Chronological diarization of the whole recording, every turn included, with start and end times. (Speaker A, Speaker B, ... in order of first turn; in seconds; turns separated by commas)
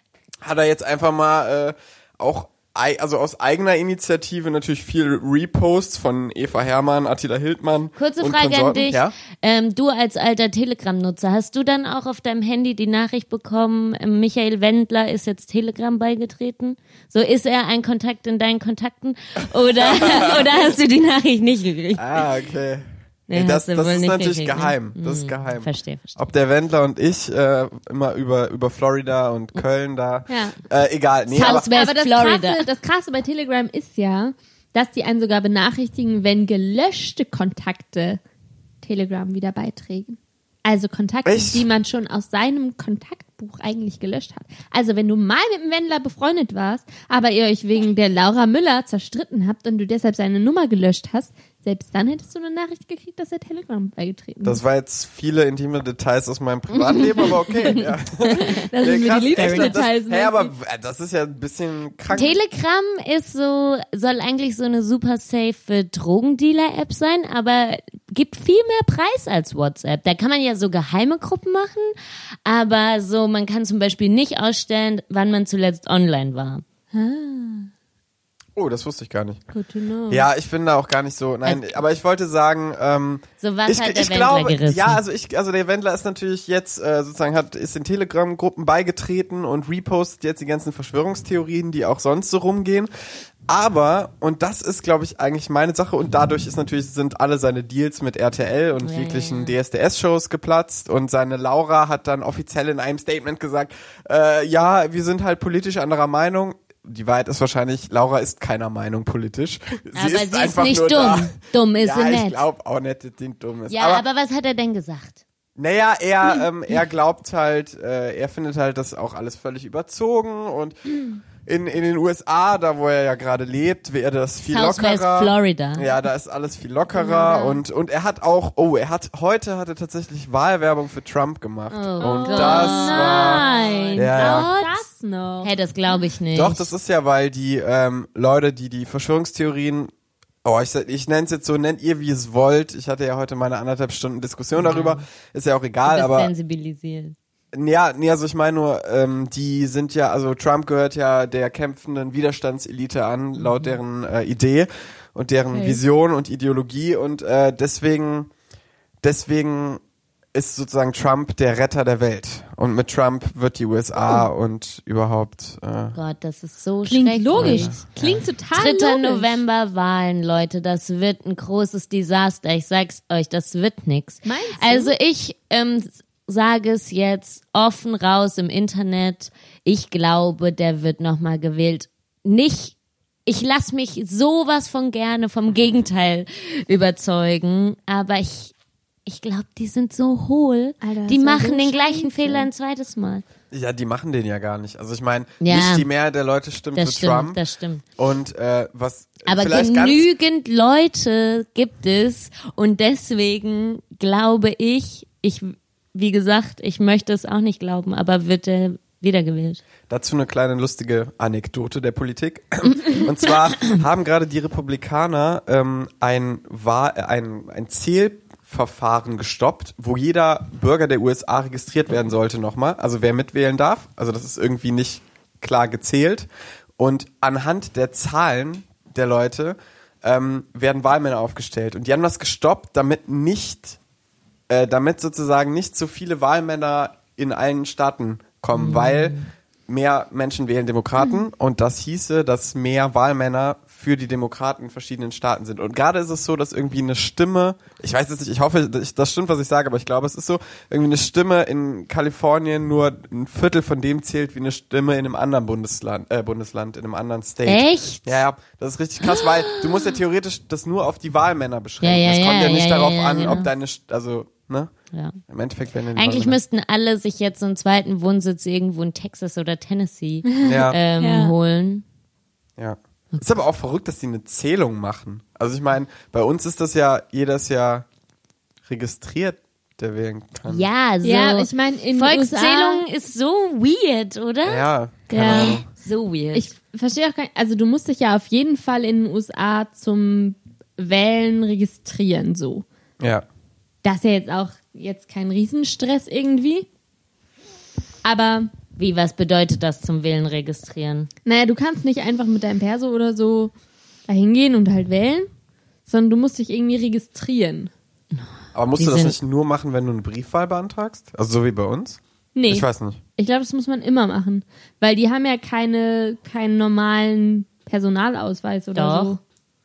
Speaker A: 0.4-9.1, Speaker B: 8.0-22.0, Speaker A: 19.8-20.5, Speaker A: 22.0-31.7, Speaker B: 23.3-26.2, Speaker C: 30.3-30.6, Speaker B: 31.3-32.6, Speaker C: 31.4-38.2, Speaker C: 38.8-54.6, Speaker A: 41.2-41.7, Speaker A: 54.4-62.3, Speaker B: 58.2-58.5, Speaker C: 58.4-60.5, Speaker B: 59.3-59.8, Speaker B: 62.1-71.9, Speaker B: 72.5-76.6, Speaker C: 76.9-77.7, Speaker A: 78.5-79.4, Speaker C: 79.5-80.2, Speaker A: 80.1-92.9, Speaker B: 81.4-81.8, Speaker B: 83.4-85.0, Speaker A: 93.5-114.0, Speaker B: 98.8-99.5, Speaker B: 109.9-112.4, Speaker B: 113.7-115.2, Speaker A: 115.6-120.8, Speaker A: 121.4-133.4, Speaker B: 124.5-125.8, Speaker C: 126.9-127.6, Speaker B: 131.7-134.8, Speaker C: 131.9-135.5, Speaker A: 134.0-134.5, Speaker B: 135.4-136.7, Speaker A: 136.3-139.9, Speaker A: 140.4-146.3, Speaker B: 144.6-145.0, Speaker B: 145.8-147.1, Speaker A: 147.5-158.3, Speaker B: 153.4-153.7, Speaker C: 155.5-155.8, Speaker A: 159.0-159.8, Speaker A: 160.3-165.9, Speaker B: 165.9-167.8, Speaker C: 166.9-169.4, Speaker A: 167.3-168.2, Speaker B: 168.5-188.5, Speaker C: 174.2-174.9, Speaker B: 189.1-193.2, Speaker C: 190.8-192.5, Speaker A: 193.5-197.4, Speaker B: 195.4-195.8, Speaker B: 196.7-197.8, Speaker A: 198.0-200.1, Speaker B: 199.2-209.6, Speaker A: 209.9-226.3, Speaker A: 226.8-233.8, Speaker A: 234.5-239.2, Speaker B: 238.5-239.3, Speaker A: 239.7-264.7, Speaker B: 257.4-258.2, Speaker B: 259.1-259.6, Speaker B: 261.8-263.5, Speaker B: 264.9-265.2, Speaker A: 265.3-266.4, Speaker B: 265.9-271.8, Speaker C: 270.4-271.3, Speaker A: 270.4-270.8, Speaker A: 272.6-277.9, Speaker A: 278.7-280.7, Speaker B: 280.5-286.5, Speaker C: 281.0-282.8, Speaker A: 284.4-285.6, Speaker C: 285.1-285.6, Speaker C: 286.3-292.6, Speaker A: 293.0-293.2, Speaker C: 293.8-296.7, Speaker C: 298.0-298.5, Speaker B: 298.8-301.1, Speaker C: 301.2-303.5, Speaker C: 304.1-305.3, Speaker C: 305.9-307.7, Speaker B: 308.1-309.2, Speaker A: 308.5-313.0, Speaker C: 312.3-312.6, Speaker C: 313.2-319.2, Speaker B: 318.7-319.2